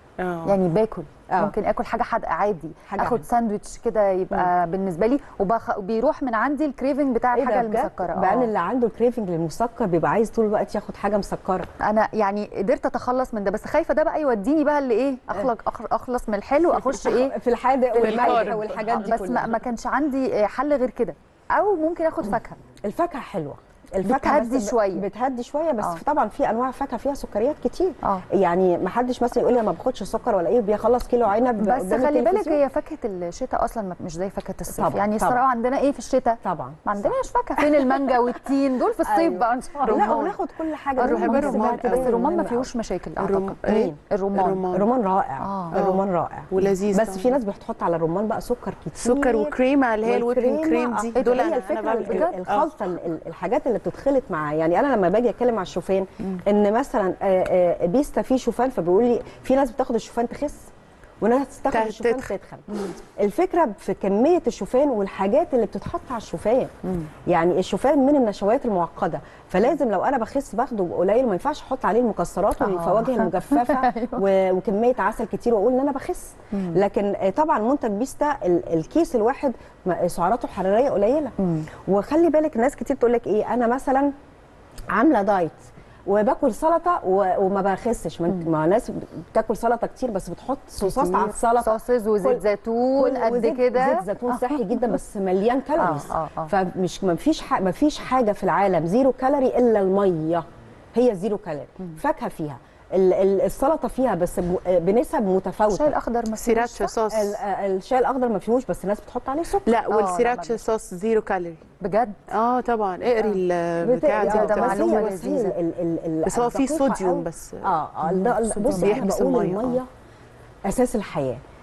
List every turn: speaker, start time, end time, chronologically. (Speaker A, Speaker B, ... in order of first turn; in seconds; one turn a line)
Speaker A: 0.2-0.5
Speaker B: 0.5-8.5
Speaker C: 1.3-1.6
Speaker C: 2.9-3.3
Speaker C: 7.3-11.7
Speaker B: 11.8-17.4
Speaker C: 16.8-19.6
Speaker A: 18.0-19.1
Speaker B: 18.0-22.6
Speaker C: 22.9-32.6
Speaker B: 24.0-25.1
Speaker B: 31.6-40.4
Speaker C: 34.7-35.4
Speaker C: 36.4-38.2
Speaker C: 39.0-42.7
Speaker A: 39.9-40.3
Speaker A: 41.0-42.1
Speaker B: 41.0-44.8
Speaker A: 43.2-44.8
Speaker C: 43.7-44.0
Speaker C: 44.7-60.7
Speaker B: 45.4-45.8
Speaker A: 45.7-47.4
Speaker A: 49.0-52.7
Speaker B: 51.1-52.4
Speaker C: 61.2-66.7
Speaker A: 61.7-62.3
Speaker C: 67.3-81.3
Speaker B: 72.6-74.2
Speaker B: 76.5-76.8
Speaker B: 81.4-81.7
Speaker C: 81.9-84.1
Speaker C: 84.9-92.4
Speaker B: 90.8-94.9
Speaker C: 93.0-105.9
Speaker B: 95.8-96.5
Speaker B: 105.7-106.9
Speaker A: 106.4-107.4
Speaker C: 107.1-109.8
Speaker A: 109.7-111.6
Speaker B: 109.9-110.6
Speaker B: 111.8-112.3
Speaker A: 112.3-115.1
Speaker C: 113.8-119.9
Speaker B: 114.2-115.6
Speaker A: 116.2-117.7
Speaker B: 118.1-119.1
Speaker A: 118.4-119.8
Speaker C: 120.7-121.4